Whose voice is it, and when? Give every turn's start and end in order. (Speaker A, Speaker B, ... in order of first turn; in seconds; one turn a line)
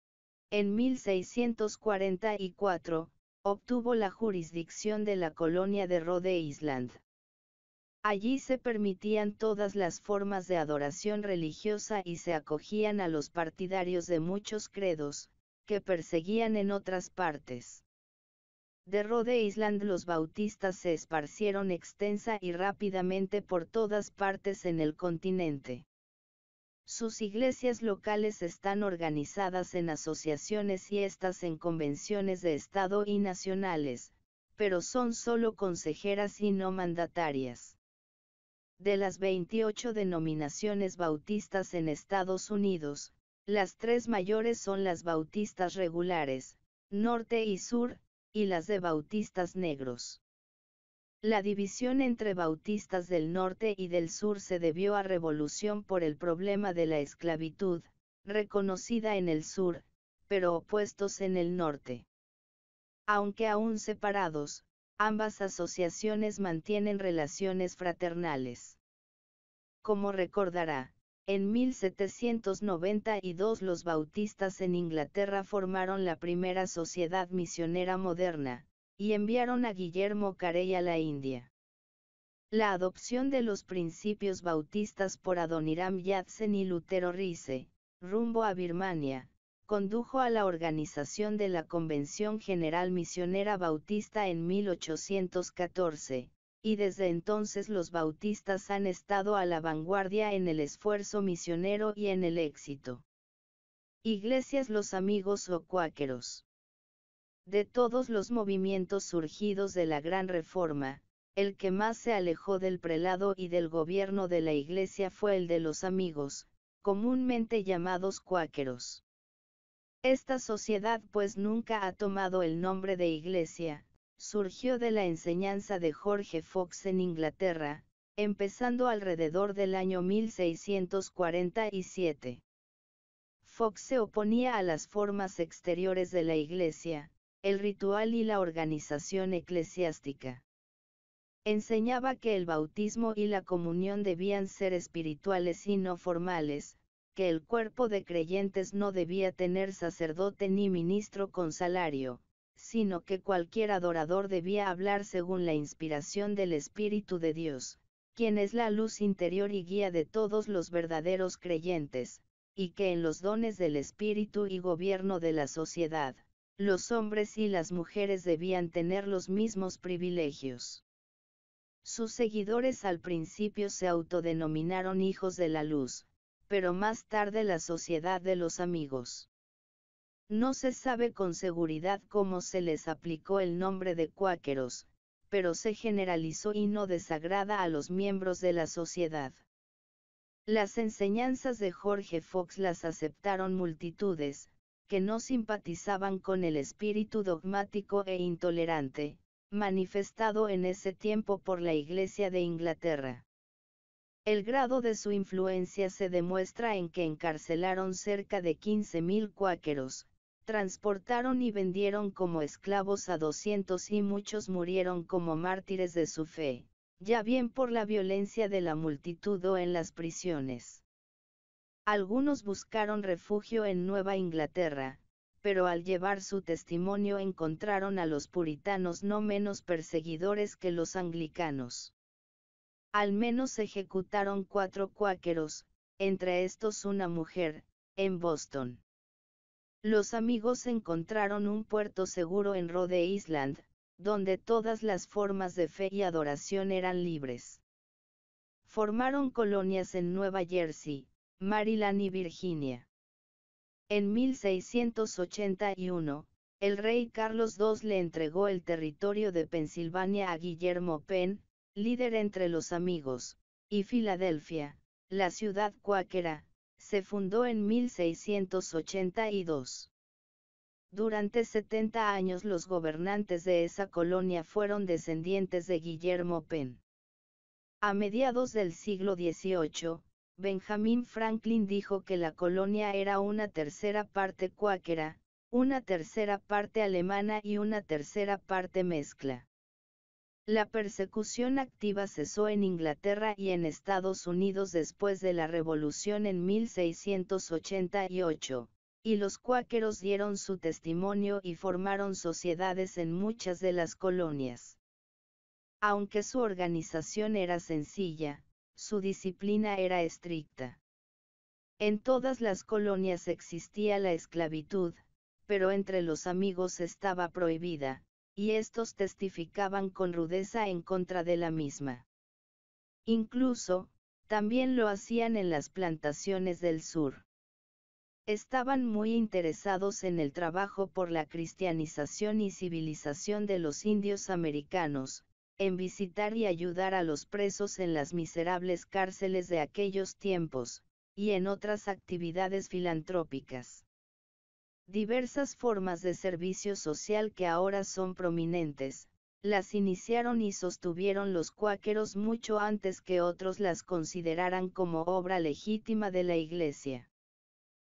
Speaker A: 0.5-7.0
Speaker A: 8.0-17.8
Speaker A: 18.9-25.9
Speaker A: 26.9-37.8
Speaker A: 38.8-50.2
Speaker A: 51.2-62.1
Speaker A: 63.1-68.8
Speaker A: 69.8-81.5
Speaker A: 82.5-103.0
Speaker A: 104.0-106.5
Speaker A: 107.5-119.0
Speaker A: 120.0-132.4
Speaker A: 133.4-140.4
Speaker A: 141.4-170.8
Speaker A: 171.8-179.3
Speaker A: 180.3-189.4
Speaker A: 190.5-203.2
Speaker A: 204.2-220.8
Speaker A: 221.9-231.9
Speaker A: 232.9-238.8
Speaker A: 239.8-247.6
Speaker A: 248.7-252.9
Speaker A: 253.9-269.9
Speaker A: 270.9-276.8
Speaker A: 277.8-289.5
Speaker A: 290.5-304.8
Speaker A: 305.8-310.8
Speaker A: 311.8-322.1
Speaker A: 323.1-327.3
Speaker A: 328.3-343.9
Speaker A: 344.9-357.1